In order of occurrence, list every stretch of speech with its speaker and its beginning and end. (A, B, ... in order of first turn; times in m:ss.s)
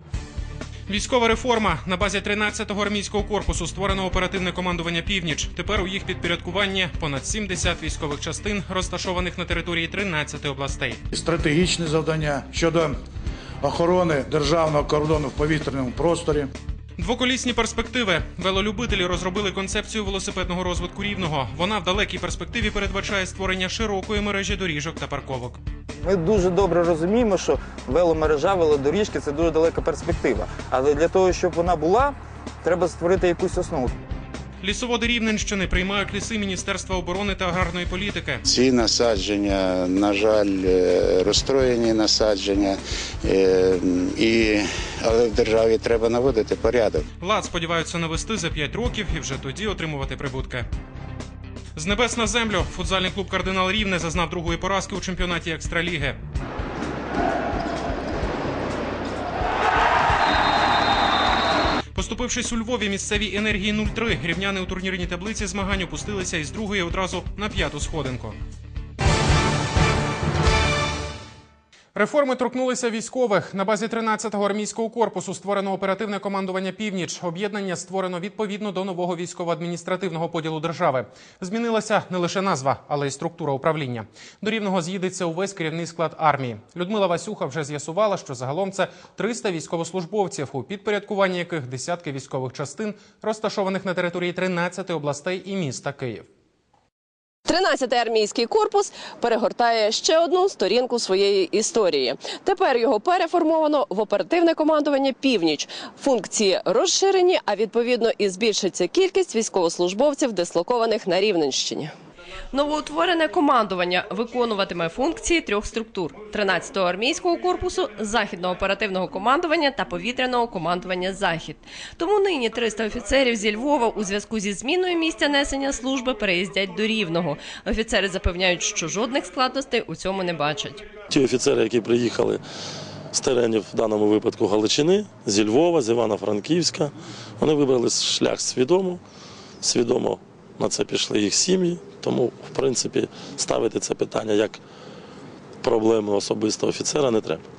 0:00.9-0:11.0 A
0:11.1-0:12.9 B
0:13.6-0:16.5 B
0:17.0-0:25.6 A
0:26.0-0:33.9 C
0:34.6-0:38.4 A
0:38.5-0:47.0 D
0:47.2-0:50.7 A
0:51.8-0:56.2 A
1:01.9-1:08.4 A
1:11.9-1:36.3 A
1:37.5-1:51.9 E
1:52.5-2:10.8 E
2:11.1-2:12.4 F
2:13.1-2:19.0 F
2:19.6-2:24.6 F
2:25.6-2:27.4 F